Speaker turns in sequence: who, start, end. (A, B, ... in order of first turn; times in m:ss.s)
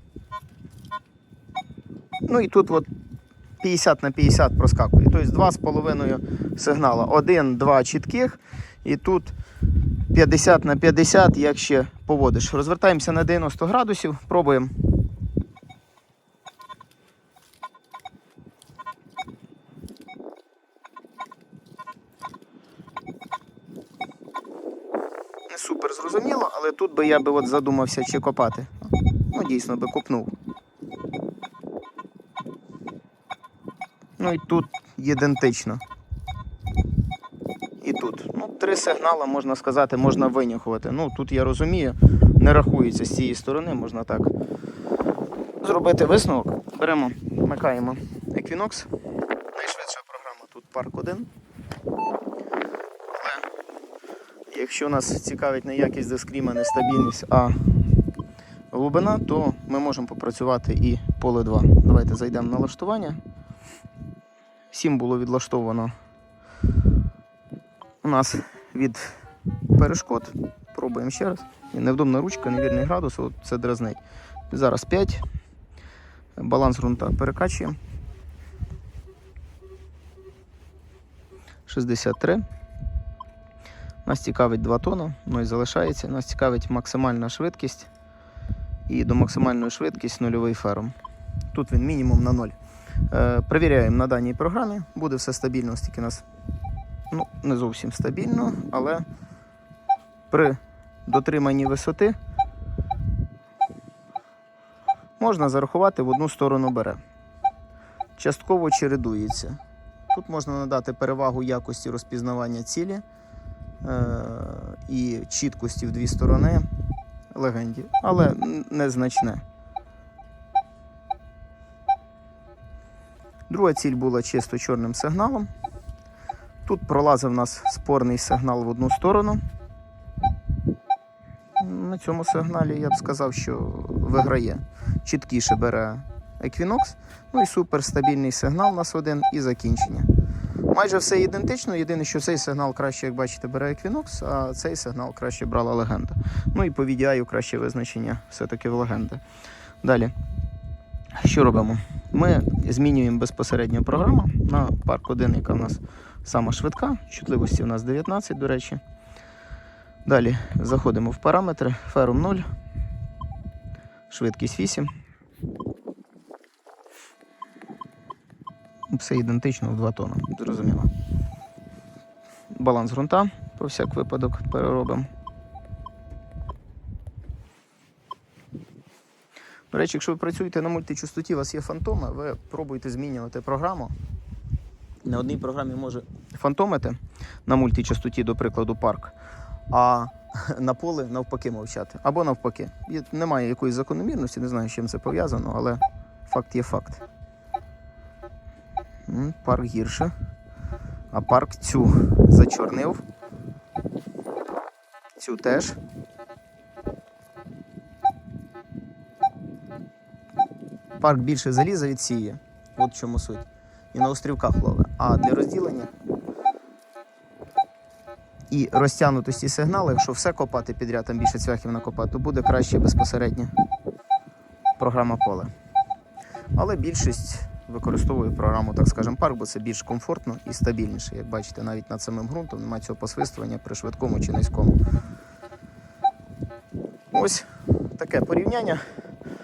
0:02.2-0:02.9 A
0:03.6-0:09.4 A
0:10.1-0:14.7 A
0:25.5-0:30.3 A
0:34.2-0:35.8 A
0:37.8-0:44.3 A
0:45.6-0:48.9 A
0:49.5-0:51.3 A
0:53.1-0:53.4 A
0:54.5-0:57.6 A
0:58.7-1:03.2 A
1:04.7-1:05.9 A
1:08.0-1:09.1 A
1:09.7-1:15.2 A
1:16.4-1:17.8 A
1:21.7-1:22.4 A
1:24.0-1:27.9 A
1:28.9-1:30.9 A
1:31.5-1:32.6 A
1:33.1-1:36.2 A
1:37.1-1:39.0 A
1:40.3-1:42.2 A
1:45.2-1:47.0 A
1:48.2-1:49.6 A
1:50.1-1:53.0 A
1:53.8-1:56.7 A
1:57.3-1:59.4 A
2:03.5-2:05.5 A
2:06.6-2:09.4 A
2:11.6-2:20.1 A
2:20.7-2:29.2 A
2:29.8-2:30.1 A
2:31.2-2:38.8 A
2:40.0-2:42.5 A
2:44.1-2:44.9 A
2:48.9-2:50.9 A
2:52.5-2:55.1 A
2:59.7-3:03.9 A
3:05.0-3:09.2 A
3:09.7-3:17.0 A
3:19.1-3:20.1 A
3:21.1-3:23.0 A
3:25.2-3:25.8 A
3:31.0-3:35.9 A
3:38.5-3:43.5 A
3:44.8-3:45.5 A
3:46.5-3:54.8 A
3:57.1-3:58.8 A